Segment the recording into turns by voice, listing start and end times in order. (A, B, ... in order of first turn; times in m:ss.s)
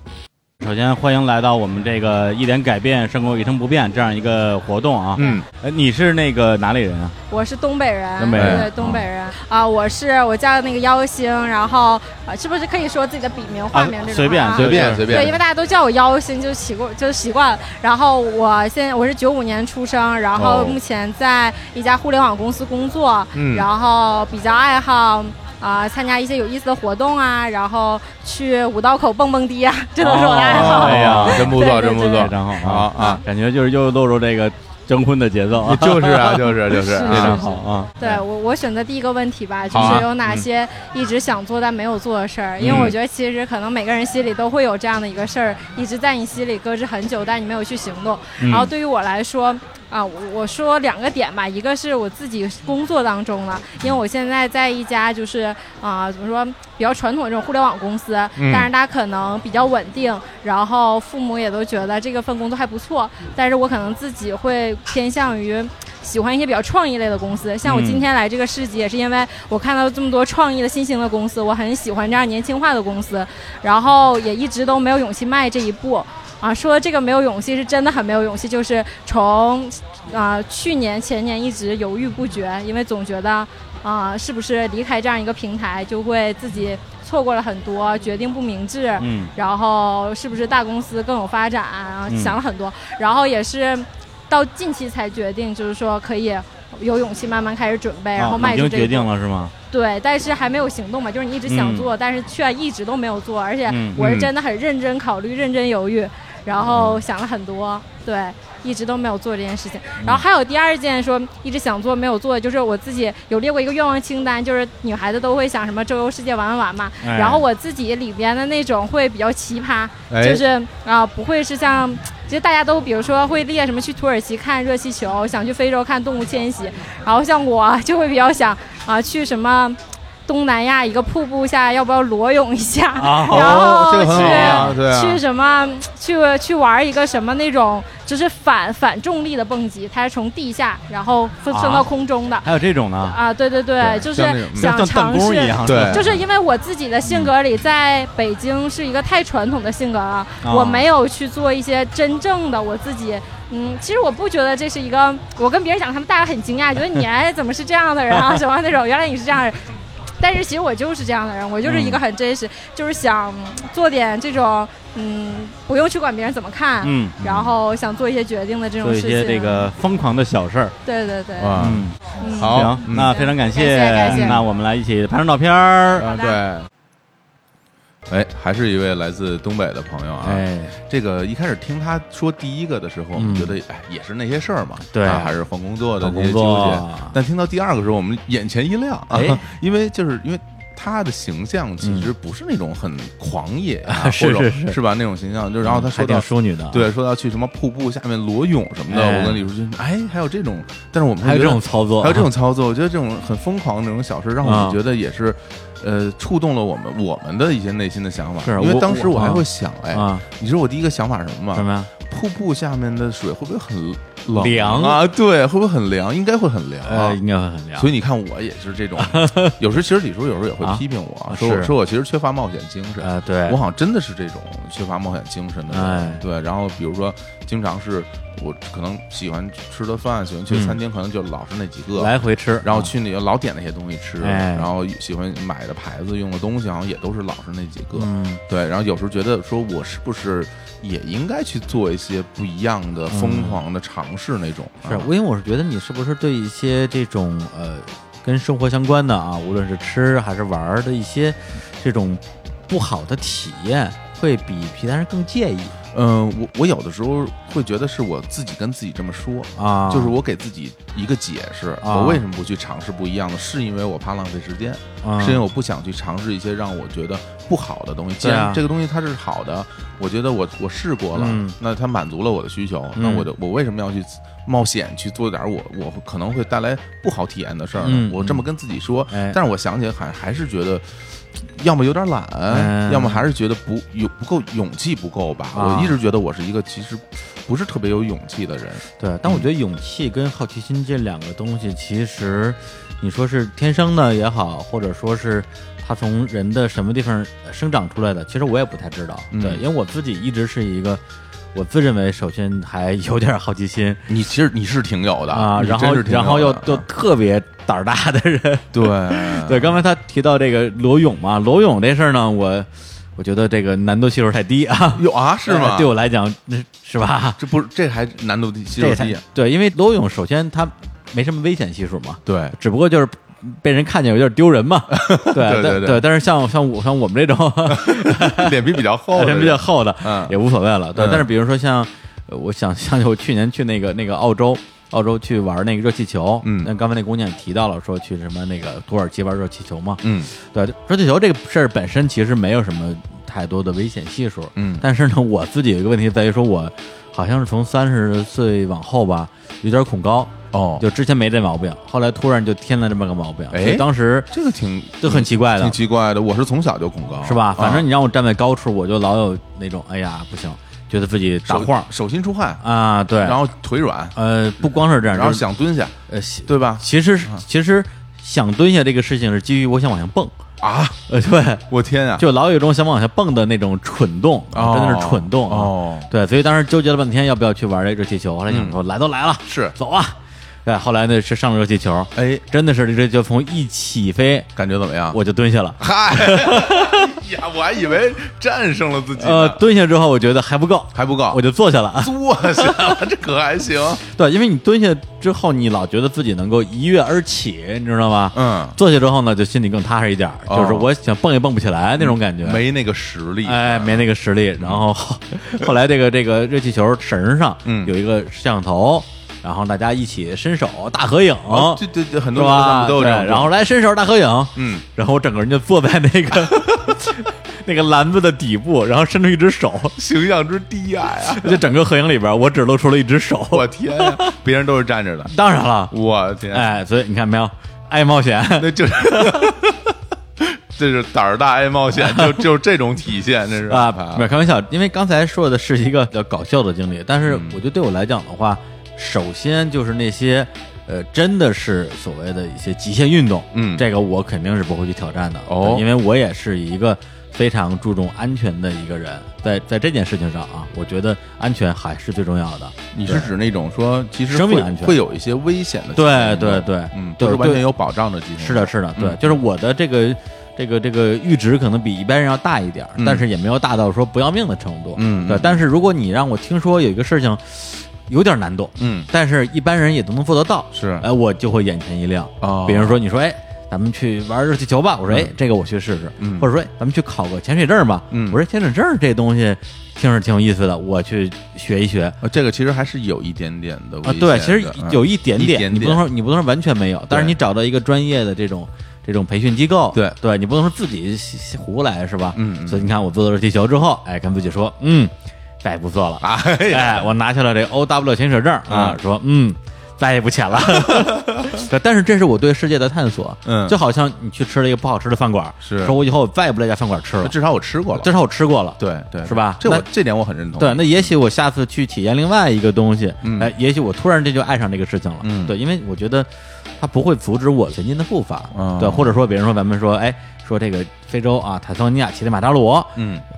0:00.6-0:07.2 A
0:05.2-0:05.4 B
0:05.2-0:05.4 C
0:07.3-0:32.3 B
0:08.2-0:08.7 A
0:08.3-0:08.7 C
0:13.7-0:15.4 A
0:14.5-0:15.4 C
0:20.4-0:20.8 C
0:23.4-0:23.7 C
0:30.0-0:38.0 A
0:30.4-0:33.2 C
0:32.9-0:33.2 B
0:35.6-0:38.2 C
0:36.9-1:39.1 B
0:39.7-0:40.5 C
0:39.7-0:40.0 A
0:42.6-0:43.0 C
0:48.4-0:48.7 A
0:58.4-0:58.7 C
1:07.6-1:08.1 A
1:29.0-1:29.3 A
1:32.1-1:32.4 A
1:38.2-1:39.5 A
1:39.7-2:22.5 B
1:41.5-1:41.9 A
1:43.7-1:44.3 A
1:57.0-1:57.4 A
2:00.1-2:00.4 C
2:13.0-2:14.8 A
2:13.3-2:15.2 C
2:21.5-2:21.9 A
2:22.4-2:23.2 A
2:23.0-2:39.6 B
2:24.0-2:24.8 C
2:24.6-2:26.2 A
2:25.6-2:26.1 C
2:30.4-2:30.9 A
2:40.2-2:49.7 B
2:41.6-2:42.0 A
2:46.8-2:47.2 A
2:47.2-2:47.6 C
2:48.8-2:50.8 A
2:50.9-2:51.6 B
2:51.4-2:51.9 C
2:51.6-2:56.1 A
2:52.2-2:54.4 B
2:52.4-2:53.2 C
2:54.1-2:54.4 C
2:56.0-2:56.7 C
2:56.0-2:56.4 B
2:58.1-3:37.2 C
3:00.2-3:00.8 D
3:03.2-3:03.6 D
3:04.9-3:05.4 D
3:06.0-3:07.2 D
3:09.1-3:09.4 D
3:11.8-3:12.1 D
3:13.9-3:14.8 D
3:15.6-3:16.9 D
3:18.9-3:19.4 D
3:21.2-3:22.3 D
3:24.4-3:24.8 D
3:28.4-3:30.2 D
3:31.5-3:31.9 D
3:34.3-3:35.0 D
3:36.8-3:37.9 D
3:37.8-3:52.1 C
3:39.0-3:39.6 D
3:40.6-3:41.7 D
3:43.0-3:43.6 D
3:45.7-3:46.2 D
3:50.5-3:50.8 D
3:51.9-3:52.9 D
3:52.6-4:05.1 C
3:54.2-3:54.7 D
3:58.0-3:58.4 D
4:03.1-4:03.6 D
4:04.8-4:15.8 D
4:15.9-4:49.5 C
4:19.6-4:20.2 D
4:21.8-4:22.2 D
4:25.0-4:25.4 D
4:28.2-4:28.6 D
4:31.2-4:31.6 D
4:33.0-4:33.3 D
4:37.8-4:38.4 D
4:39.1-4:39.4 D
4:42.5-4:43.3 D
4:45.5-4:46.0 D
4:49.0-5:01.0 D
4:59.3-4:59.6 C
5:01.5-5:04.0 D
5:04.1-5:06.8 C
5:05.3-5:17.4 D
5:08.7-5:09.8 C
5:15.0-5:15.9 C
5:17.4-5:19.2 C
5:18.8-5:54.3 D
5:22.3-5:22.6 C
5:24.9-5:26.0 C
5:27.7-5:30.4 C
5:31.0-5:31.2 C
5:36.4-5:36.7 C
5:40.0-5:40.3 C
5:44.6-5:44.8 C
5:50.5-5:50.8 C
5:53.5-5:57.9 C
5:55.0-5:55.8 D
5:57.2-6:01.9 D
6:01.4-6:02.6 C
6:02.6-6:03.4 D
6:03.2-6:04.2 C
6:04.2-6:05.4 D
6:05.1-6:06.0 C
6:06.1-6:10.4 D
6:06.5-6:07.4 C
6:10.6-6:11.0 C
6:11.1-6:11.6 D
6:11.7-6:12.3 C
6:12.2-6:24.5 D
6:14.5-6:16.1 C
6:18.5-6:18.8 C
6:19.5-6:19.7 C
6:22.2-6:22.4 C
6:24.6-6:25.2 C
6:25.1-6:27.1 D
6:25.8-6:29.6 C
6:29.2-6:33.0 D
6:31.0-6:31.4 C
6:32.0-6:34.0 C
6:34.0-6:42.6 D
6:38.3-6:38.8 C
6:40.5-6:40.9 C
6:42.0-6:44.0 C
6:43.4-7:00.0 D
6:47.7-6:47.9 C
6:51.5-6:53.5 C
6:54.6-6:54.8 C
7:00.0-7:01.6 C
7:01.3-7:04.3 D
7:03.5-7:05.3 C
7:05.2-7:06.0 D
7:05.9-7:06.7 C
7:06.5-7:09.6 D
7:08.6-7:09.8 C
7:10.4-7:14.2 C
7:11.9-7:12.5 D
7:13.7-7:33.3 D
7:17.3-7:17.6 C
7:23.5-7:23.8 C
7:25.5-7:25.8 C
7:32.9-7:39.4 C
7:34.3-7:35.0 D
7:36.0-7:37.7 D
7:38.4-8:02.2 D
7:43.0-7:43.2 C
7:45.0-7:45.6 C
7:48.8-7:49.1 C
7:50.7-7:51.0 C
7:52.4-7:53.0 C
7:56.2-7:56.5 C
7:58.1-7:58.4 C
8:02.2-8:06.0 C
8:04.0-8:27.4 D
8:07.1-8:07.4 C
8:12.4-8:12.9 C
8:16.2-8:17.1 C
8:18.7-8:19.0 C
8:20.6-8:21.6 C
8:23.5-8:23.8 C
8:25.6-8:26.0 C
8:27.2-8:28.1 C
8:27.9-8:29.9 D
8:28.8-8:31.1 C
8:30.6-8:43.0 D
8:33.2-8:33.5 C
8:35.2-8:35.6 C
8:38.5-8:39.2 C
8:43.0-8:43.2 C